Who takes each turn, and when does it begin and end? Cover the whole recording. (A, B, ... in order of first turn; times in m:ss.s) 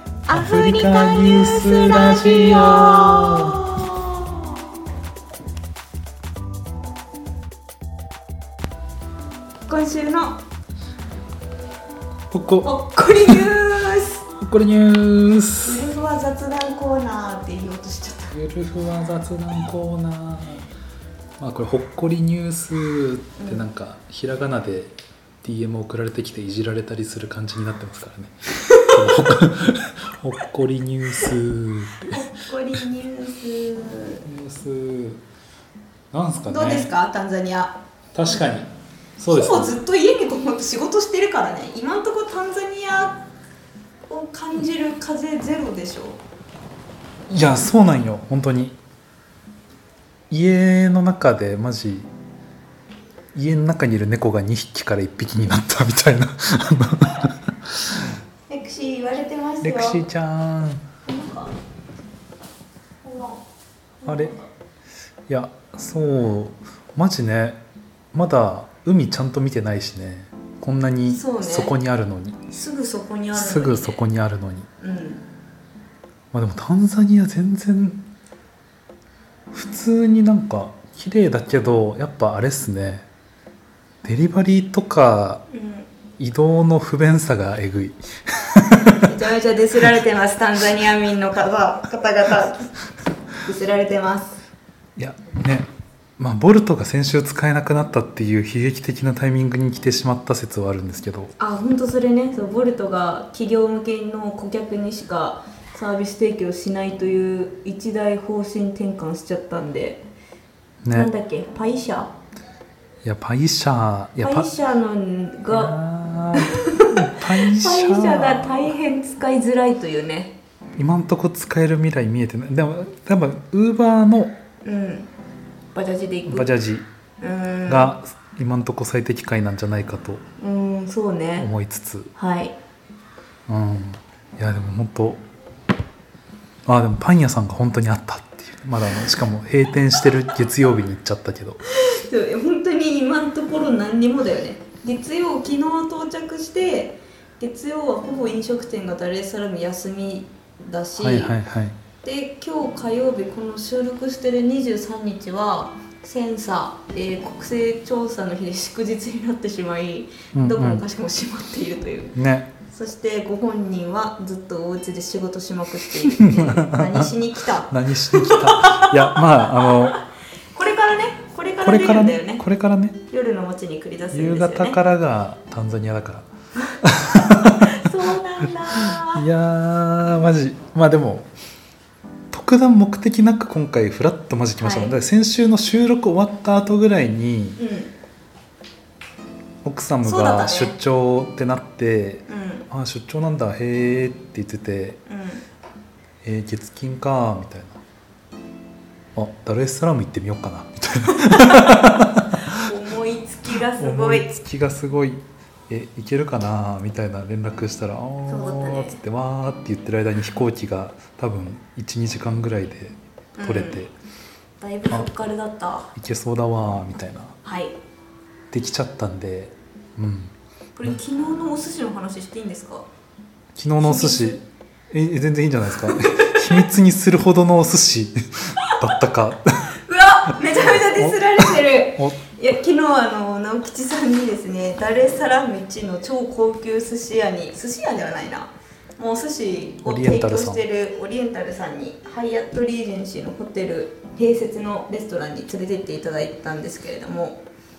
0:00.3-0:04.4 A
0:00.3-0:03.6 B
0:09.7-0:10.4 A
0:12.3-0:13.4 B
0:12.6-0:14.2 A
0:14.4-0:15.8 B
0:15.6-0:18.4 A
0:18.3-0:20.7 B
0:21.4-0:32.2 B
0:23.4-0:23.6 A
0:32.0-0:34.2 A
0:34.2-0:35.2 B
0:36.1-0:36.9 B
0:36.5-0:37.8 A
0:38.1-0:39.8 B
0:39.3-0:43.2 A
0:44.1-0:46.2 A
0:47.3-0:48.8 B
0:50.3-0:52.1 B
0:53.3-0:58.0 B
0:58.5-1:00.1 A
0:59.6-1:00.8 B
1:01.1-1:01.5 A
1:03.0-1:03.4 A
1:04.0-1:04.5 A
1:04.0-1:04.4 B
1:05.3-1:07.6 B
1:08.1-1:12.5 B
1:11.1-1:11.7 A
1:12.5-1:14.0 A
1:13.3-1:14.7 B
1:14.8-1:15.2 A
1:16.3-1:18.0 B
1:19.5-1:23.1 B
1:24.0-1:25.4 B
1:25.5-1:25.9 A
1:26.2-1:29.1 B
1:28.9-1:32.7 A
1:33.4-1:34.4 A
1:35.0-1:35.7 B
1:36.2-1:41.3 B
1:41.4-1:50.0 A
1:50.8-1:51.1 B
1:50.9-1:52.1 A
1:53.0-1:54.5 B
1:54.2-1:55.7 A
1:55.5-1:58.7 B
1:56.4-1:56.9 A
1:57.5-2:00.4 A
2:00.8-2:04.4 B
2:04.6-2:05.1 A
2:05.7-2:06.5 A
2:06.3-2:06.9 B
2:07.2-2:07.9 A
2:07.7-2:10.2 B
2:10.4-2:11.5 A
2:11.4-2:12.1 B
2:12.2-2:12.6 A
2:13.5-2:15.2 B
2:16.7-2:21.6 B
2:21.6-2:31.4 A
2:31.0-2:31.8 B
2:32.0-2:42.2 A
2:40.3-2:40.8 B
2:42.2-2:42.5 B
2:42.7-2:50.0 A
2:46.1-2:47.1 B
2:47.7-2:50.0 B
2:50.5-2:52.4 A
2:51.6-2:53.0 B
2:53.1-2:54.8 A
2:54.1-2:56.3 B
2:56.8-2:57.7 B
2:57.1-2:59.2 A
2:58.7-3:01.3 B
3:02.3-3:07.6 B
3:04.6-3:05.0 A
3:07.6-3:07.9 A
3:09.6-3:15.0 B
3:10.0-3:10.8 A
3:12.3-3:12.7 A
3:15.1-3:15.4 A
3:16.2-3:17.8 B
3:19.2-3:22.3 B
3:21.4-3:21.8 A
3:22.5-3:24.3 A
3:23.8-3:33.9 B
3:28.3-3:29.0 A
3:33.4-3:33.8 A
3:34.6-3:35.9 A
3:36.0-3:37.4 B
3:37.4-3:37.8 A
3:38.5-3:40.3 B
3:40.8-3:42.9 A
3:43.6-3:44.4 B
3:43.8-3:44.4 A
3:44.9-3:49.7 B
3:45.8-3:46.4 A
3:49.8-4:07.4 A
3:51.0-3:52.2 B
3:59.8-4:00.6 B